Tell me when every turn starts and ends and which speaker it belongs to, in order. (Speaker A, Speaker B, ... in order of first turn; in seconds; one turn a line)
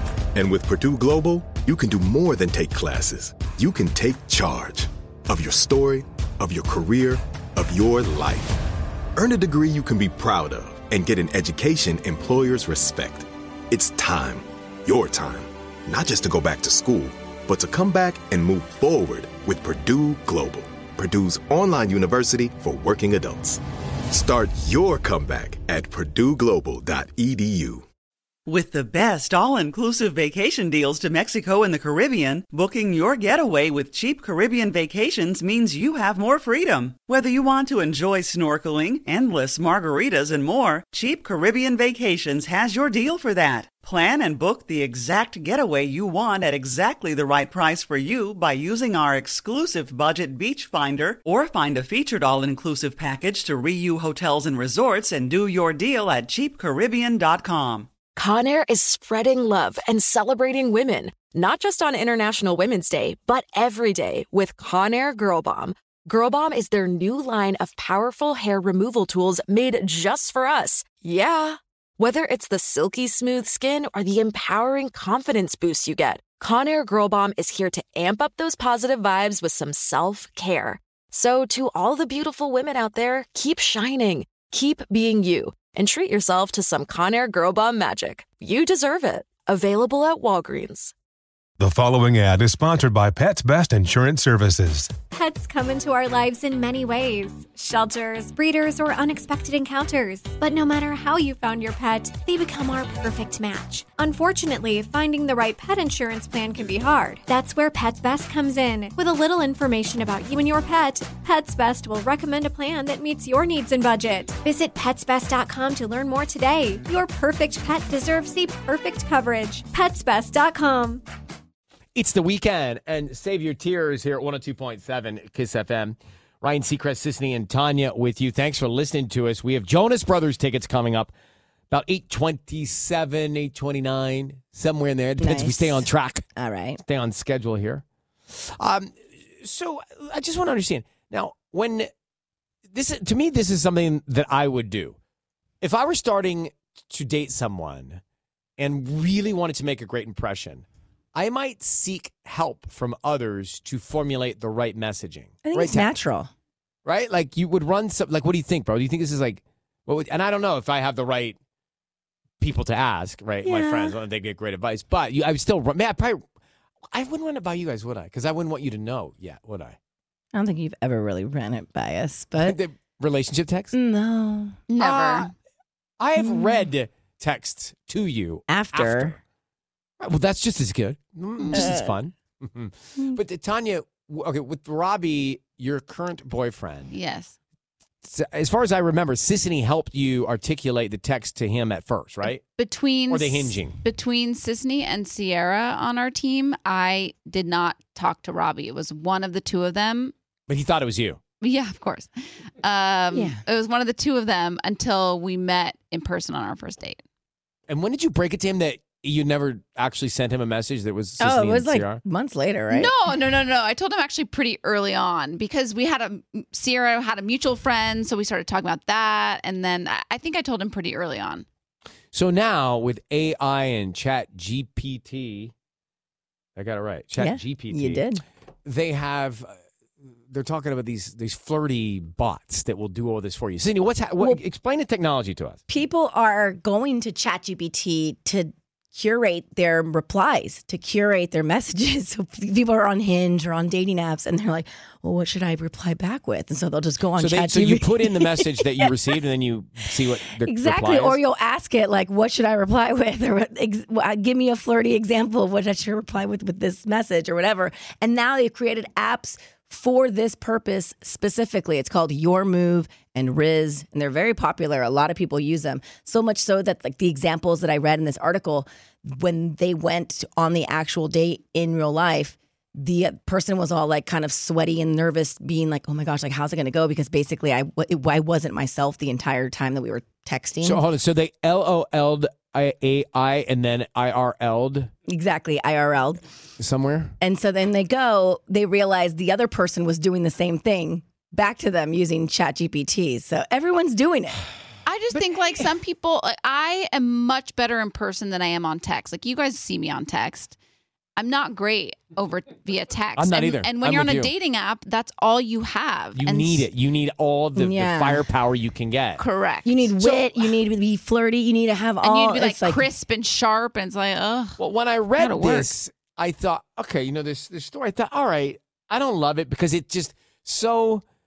Speaker A: 0.3-8.6
Speaker A: 9.2-23.6
Speaker A: 24.1-27.9
Speaker B: 28.5-57.9
Speaker C: 58.2-90.9
Speaker D: 91.6-94.7
Speaker B: 91.7-93.7
Speaker B: 94.4-94.8
Speaker E: 95.1-121.0
Speaker F: 122.0-131.1
Speaker F: 131.7-136.2
Speaker G: 135.2-136.8
Speaker F: 136.8-141.9
Speaker F: 142.7-145.0
Speaker F: 145.6-148.0
Speaker F: 148.6-155.9
Speaker G: 155.4-156.3
Speaker F: 156.8-161.4
Speaker F: 162.4-166.2
Speaker G: 163.4-164.0
Speaker F: 166.9-169.8
Speaker G: 170.3-172.6
Speaker F: 172.4-173.7
Speaker G: 173.7-174.6
Speaker H: 174.7-175.3
Speaker F: 174.8-175.3
Speaker F: 176.0-179.2
Speaker G: 176.2-176.7
Speaker G: 178.5-179.2
Speaker F: 180.0-186.9
Speaker G: 181.5-181.9
Speaker H: 186.9-187.3
Speaker F: 188.0-192.4
Speaker H: 192.5-200.1
Speaker F: 193.1-193.8
Speaker F: 200.5-201.2
Speaker H: 201.4-207.0
Speaker G: 203.1-203.4
Speaker F: 207.7-212.0
Speaker G: 211.2-212.9
Speaker H: 212.7-221.5
Speaker F: 222.1-225.5
Speaker F: 226.6-228.1
Speaker G: 227.2-228.2
Speaker F: 228.7-229.6
Speaker F: 230.2-235.6
Speaker G: 235.7-248.9
Speaker F: 247.2-251.2
Speaker G: 250.4-280.9
Speaker F: 280.6-284.9
Speaker G: 285.1-286.2
Speaker F: 286.6-287.1
Speaker G: 287.2-294.5
Speaker H: 294.9-300.6
Speaker H: 301.2-306.7
Speaker F: 303.2-304.3
Speaker F: 306.1-309.2
Speaker G: 307.6-308.3
Speaker H: 309.2-310.5
Speaker G: 309.6-312.9
Speaker H: 312.0-314.6
Speaker F: 314.6-321.0
Speaker H: 315.2-315.7